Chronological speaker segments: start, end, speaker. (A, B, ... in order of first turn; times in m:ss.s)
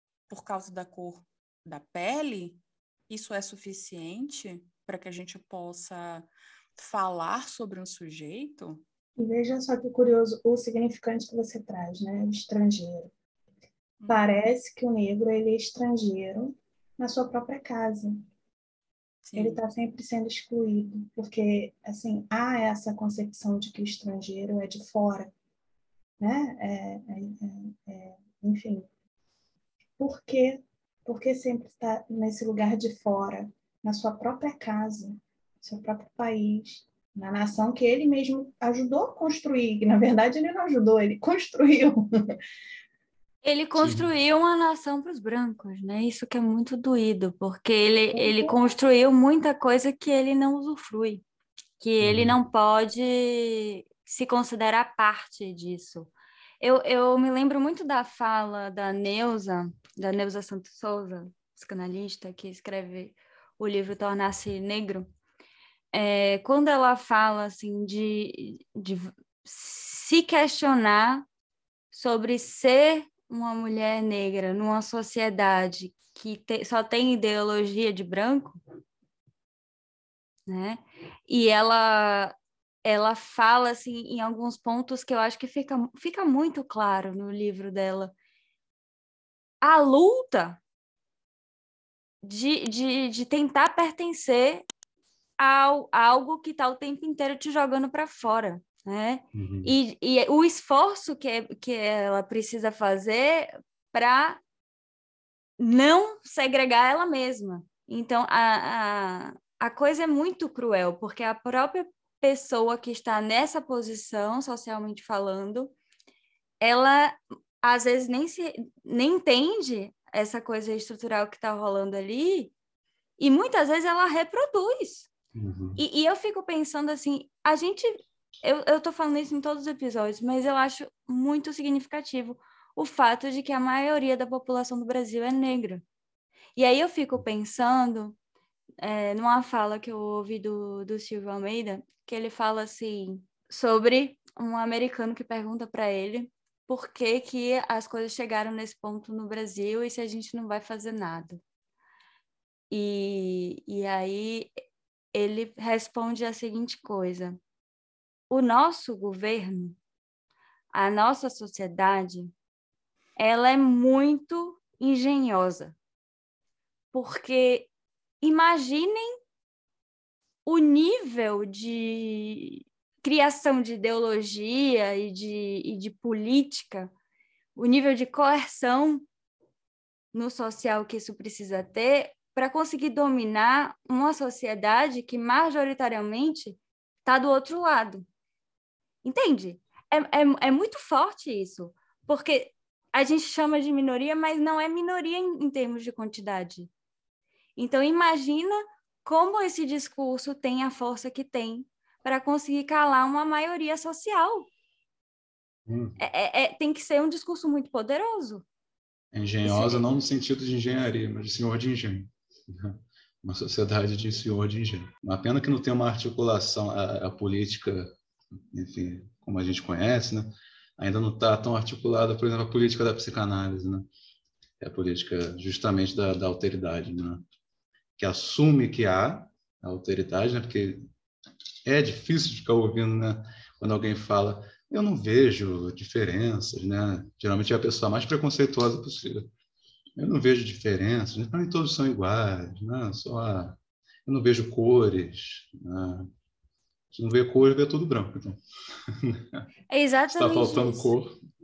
0:00.3-0:08.8 A
0:09.2-0:13.1 B
0:14.0-0:14.3 A
0:14.1-0:18.2 B
0:19.2-0:19.6 A
0:19.4-0:25.3 B
0:26.2-0:28.9 B
0:30.0-0:42.0 B
0:43.4-0:51.2 C
0:43.8-0:44.1 D
0:48.1-0:48.6 B
0:51.8-1:05.1 C
0:52.0-0:52.4 D
1:05.9-1:11.3 C
1:11.9-1:18.6 C
1:20.5-1:22.3 C
1:22.8-1:28.1 C
1:29.6-1:30.6 C
1:32.2-1:34.7 C
1:35.4-1:44.4 C
1:39.4-1:39.8 D
1:45.6-1:55.7 C
1:56.6-2:02.5 C
2:03.2-2:05.1 C
2:05.4-2:05.8 D
2:05.8-2:15.8 C
2:16.6-2:18.2 C
2:18.8-2:31.4 C
2:32.7-2:34.5 C
2:35.1-2:37.4 C
2:38.3-2:39.8 C
2:40.7-2:42.3 C
2:43.2-2:45.8 C
2:46.9-2:47.7 C
2:48.2-2:49.1 C
2:50.4-2:56.9 C
2:57.6-2:59.0 C
3:00.1-3:08.1 C
3:09.0-3:16.7 C
3:17.6-3:24.5 C
3:25.7-3:26.0 D
3:26.0-3:28.4 C
3:29.1-3:37.9 D
3:29.4-3:29.8 C
3:38.5-3:43.9 D
3:44.6-3:47.2 D
3:48.0-3:50.8 D
3:51.6-3:59.3 D
4:00.0-4:06.1 D
4:06.9-4:09.4 D
4:09.7-4:10.9 C
4:10.1-4:11.2 D